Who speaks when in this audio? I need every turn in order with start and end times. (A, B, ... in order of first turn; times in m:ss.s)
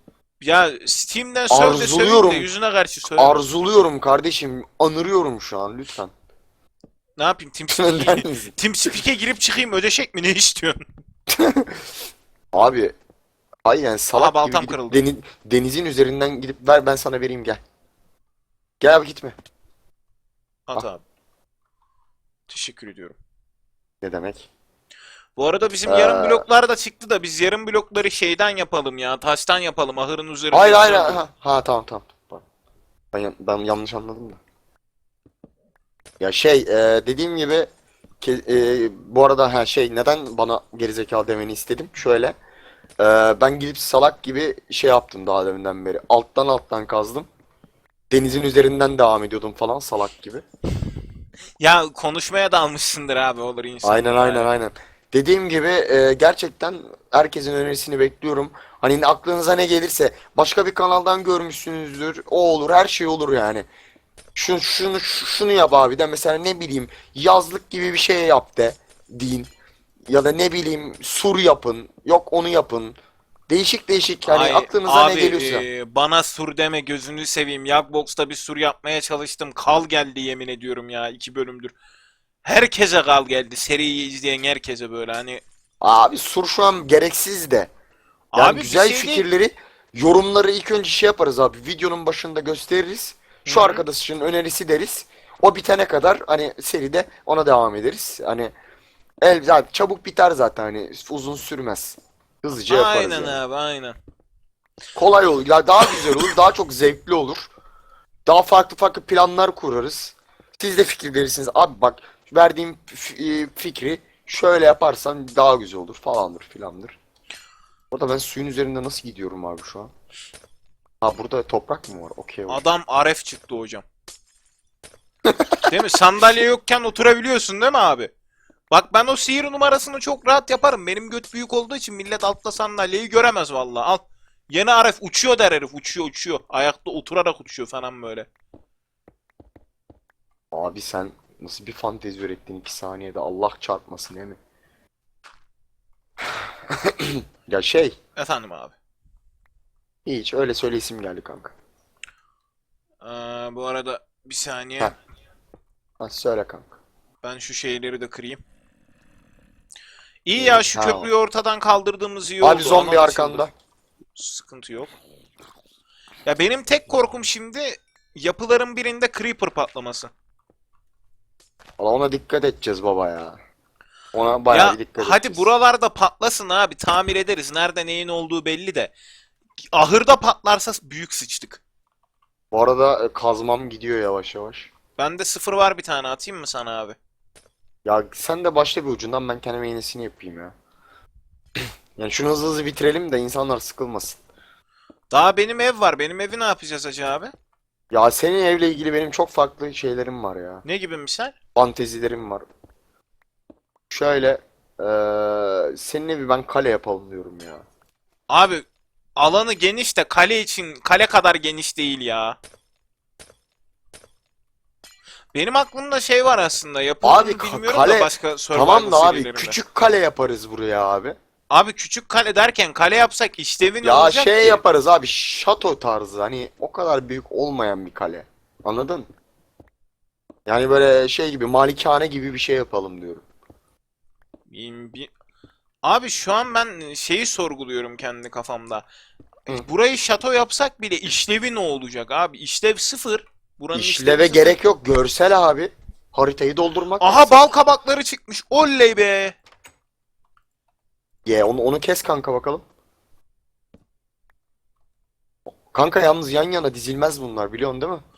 0:00.4-0:03.4 A
0:01.5-0:02.5 B
0:03.1-0:06.1 B
0:07.2-0:10.8 A
0:07.7-0:08.5 B
0:11.3-0:11.8 B
0:12.5-0:13.0 B
0:13.6-0:17.6 B
0:14.1-0:15.0 A
0:18.8-0:19.3 B
0:20.7-0:21.0 A
0:22.5-0:23.1 A
0:24.0-0:24.5 B
0:25.4-0:31.2 A
0:25.8-0:26.4 B
0:30.5-0:32.4 B
0:33.1-0:34.4 B
0:36.2-0:37.7 B
0:38.2-0:42.4 B
0:43.0-0:47.3 B
0:48.1-0:50.4 B
0:51.6-0:54.5 A
0:53.8-1:03.6 B
1:04.3-1:09.5 B
1:10.1-1:13.0 B
1:13.5-1:15.6 B
1:14.2-1:21.7 A
1:22.4-1:25.4 A
1:25.8-1:27.7 B
1:28.3-1:29.2 A
1:28.3-1:38.5 B
1:33.4-1:33.8 A
1:39.2-1:43.4 B
1:42.7-1:44.0 A
1:44.9-1:47.5 B
1:45.9-1:46.2 A
1:48.2-1:57.0 B
1:57.9-1:59.9 B
2:01.0-2:02.6 B
2:02.5-2:03.8 A
2:05.2-2:05.6 B
2:05.6-2:08.1 A
2:08.7-2:18.3 A
2:20.5-2:24.4 B
2:26.3-2:27.9 B
2:28.2-2:28.7 A
2:30.0-2:31.5 B
2:33.0-2:34.9 A
2:36.0-2:36.7 B
2:37.2-2:38.4 A
2:40.2-2:43.4 A
2:40.4-2:41.1 B
2:42.4-2:43.5 B
2:44.2-2:44.9 A
2:46.2-2:50.1 A
2:51.8-2:53.4 B
2:54.1-2:55.4 B
2:54.5-2:58.9 A
2:59.7-3:01.6 A
3:02.5-3:04.7 B
3:05.0-3:07.0 A
3:07.8-3:10.5 B
3:11.6-3:14.2 B
3:15.1-3:17.3 A
3:17.9-3:20.6 B
3:20.6-3:21.3 A
3:21.5-3:22.5 B
3:23.9-3:27.6 B
3:28.3-3:32.4 A
3:35.3-3:39.6 A
3:37.0-3:41.2 B
3:41.5-3:44.6 A
3:43.8-3:49.1 B
3:50.4-3:53.2 B
3:54.5-3:55.1 A
3:55.8-3:58.8 A
3:59.5-4:04.6 A
4:03.7-4:07.3 B
4:07.0-4:09.4 A
4:11.2-4:12.6 B
4:15.7-4:18.0 B